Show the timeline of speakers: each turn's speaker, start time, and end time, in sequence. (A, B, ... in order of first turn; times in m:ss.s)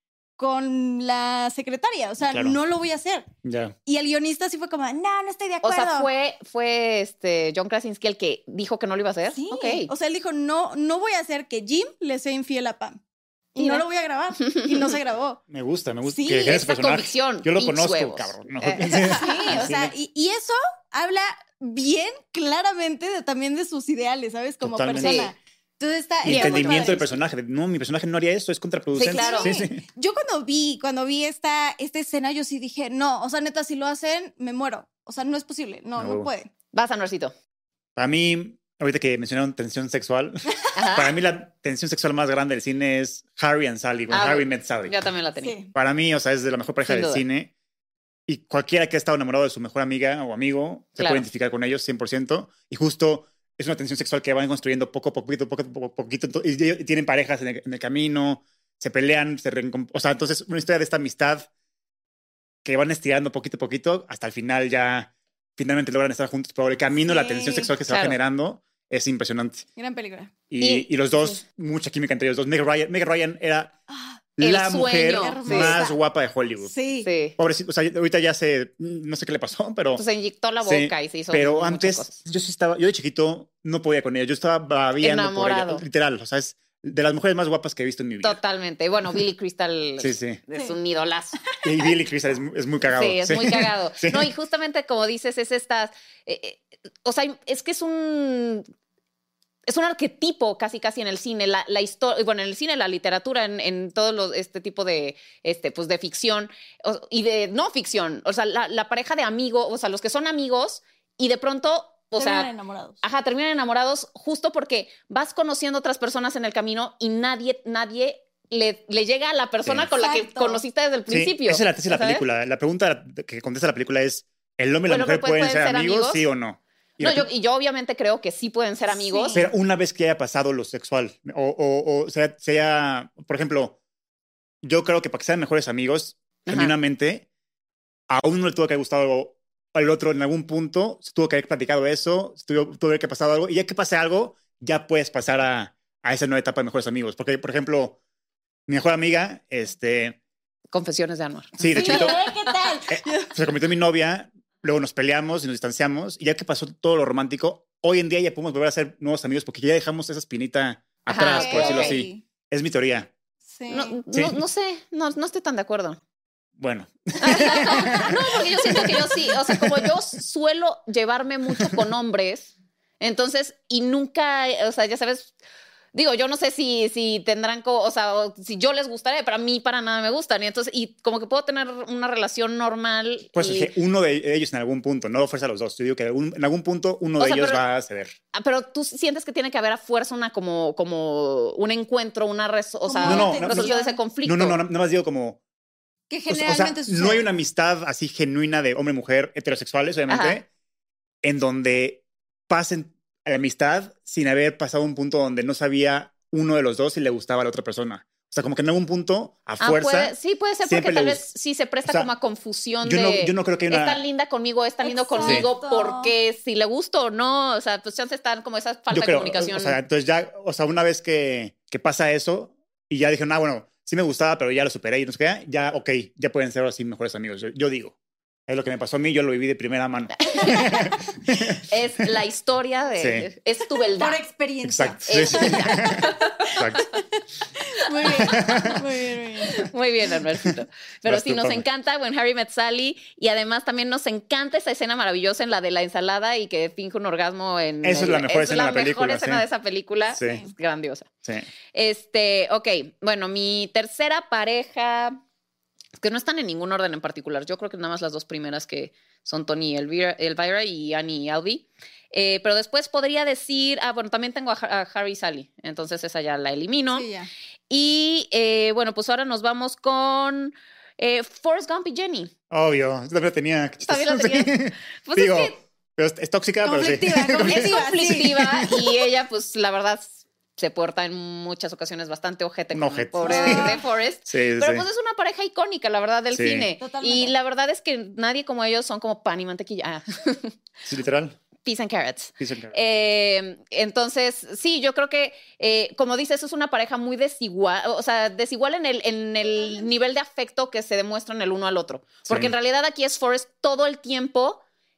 0:00.4-0:03.3 A
0:02.3-0:02.6 B
0:03.4-0:03.7 B
0:03.8-0:06.1 A
0:05.6-0:09.9 C
0:09.3-0:13.0 A
0:13.5-0:15.4 A
0:13.6-0:13.8 C
0:14.4-0:14.9 C
0:15.5-0:19.9 B
0:16.0-0:16.5 A
0:16.4-0:19.6 C
0:19.1-0:27.0 A
0:24.6-0:25.2 B
0:25.0-0:25.3 C
0:26.2-0:29.8 B
0:26.3-0:27.0 C
0:28.9-0:29.5 C
0:28.9-0:36.5 A
0:36.0-0:36.3 B
0:36.7-0:37.3 C
0:38.0-0:45.0 B
0:40.7-0:41.1 C
0:44.1-0:45.6 C
0:45.4-0:45.7 A
0:45.7-0:47.5 B
0:46.8-0:47.2 C
0:48.3-1:01.5 B
0:51.0-0:51.2 C
1:02.6-1:09.6 B
1:07.0-1:07.7 A
1:07.9-1:08.2 C
1:09.8-1:10.3 A
1:10.5-1:13.7 B
1:10.6-1:11.4 C
1:13.9-1:14.2 A
1:14.4-1:16.7 B
1:14.4-1:15.8 C
1:15.2-1:16.0 A
1:16.6-1:17.1 A
1:17.0-1:17.4 C
1:17.4-1:20.0 B
1:20.0-1:22.2 C
1:20.6-1:28.4 B
1:25.0-1:25.8 C
1:28.2-1:31.4 C
1:30.0-1:30.4 B
1:31.6-1:34.3 B
1:32.8-1:38.6 C
1:39.7-1:52.5 C
1:52.2-1:53.0 A
1:53.0-2:02.2 C
2:00.0-2:00.6 A
2:01.1-2:07.3 B
2:04.9-2:06.2 C
2:07.0-2:09.4 C
2:08.9-2:09.5 A
2:09.3-2:13.8 B
2:14.6-2:17.2 B
2:16.5-2:16.7 C
2:18.1-2:28.0 B
2:28.7-2:30.2 B
2:30.7-2:32.5 C
2:31.6-2:32.2 B
2:31.7-2:33.3 A
2:32.9-2:43.1 B
2:41.1-2:42.0 C
2:41.2-2:42.2 A
2:43.5-2:44.0 A
2:43.7-2:46.0 C
2:44.1-2:44.4 B
2:46.6-2:49.9 B
2:47.2-2:55.3 C
2:47.7-2:48.0 A
2:55.9-3:03.7 C
3:03.3-3:08.1 B
3:07.2-3:07.6 C
3:08.3-3:14.6 C
3:12.9-3:14.0 A
3:13.0-3:15.4 B
3:16.1-3:17.3 A
3:16.3-3:20.5 B
3:20.1-3:20.4 C
3:21.2-3:31.2 B
3:29.6-3:39.8 C
3:32.8-3:34.0 B
3:34.8-3:36.1 A
3:35.2-3:35.5 B
3:38.9-3:47.9 B
3:48.5-3:51.6 B
3:50.2-3:50.9 C
3:51.7-3:54.2 C
3:53.0-3:53.3 B
3:54.0-3:59.6 A
3:54.6-3:56.9 B
3:55.1-3:56.5 C
3:58.0-3:58.3 C
3:58.1-3:58.8 B
3:59.4-4:11.1 C
4:01.0-4:01.6 B
4:07.8-4:09.4 B
4:10.2-4:10.4 B
4:10.2-4:10.5 A
4:11.7-4:15.2 C
4:16.0-4:27.1 C
4:26.9-4:27.3 A
4:27.7-4:32.3 C
4:32.5-4:37.8 B
4:33.8-4:35.6 C
4:36.6-4:38.7 A
4:37.4-4:50.5 C
4:42.7-4:44.8 B
4:43.2-4:43.8 A
4:46.3-4:46.7 B
4:46.8-4:47.3 A
4:50.8-4:51.4 B
4:51.6-5:04.6 C
4:52.4-4:52.7 B
5:02.3-5:02.5 B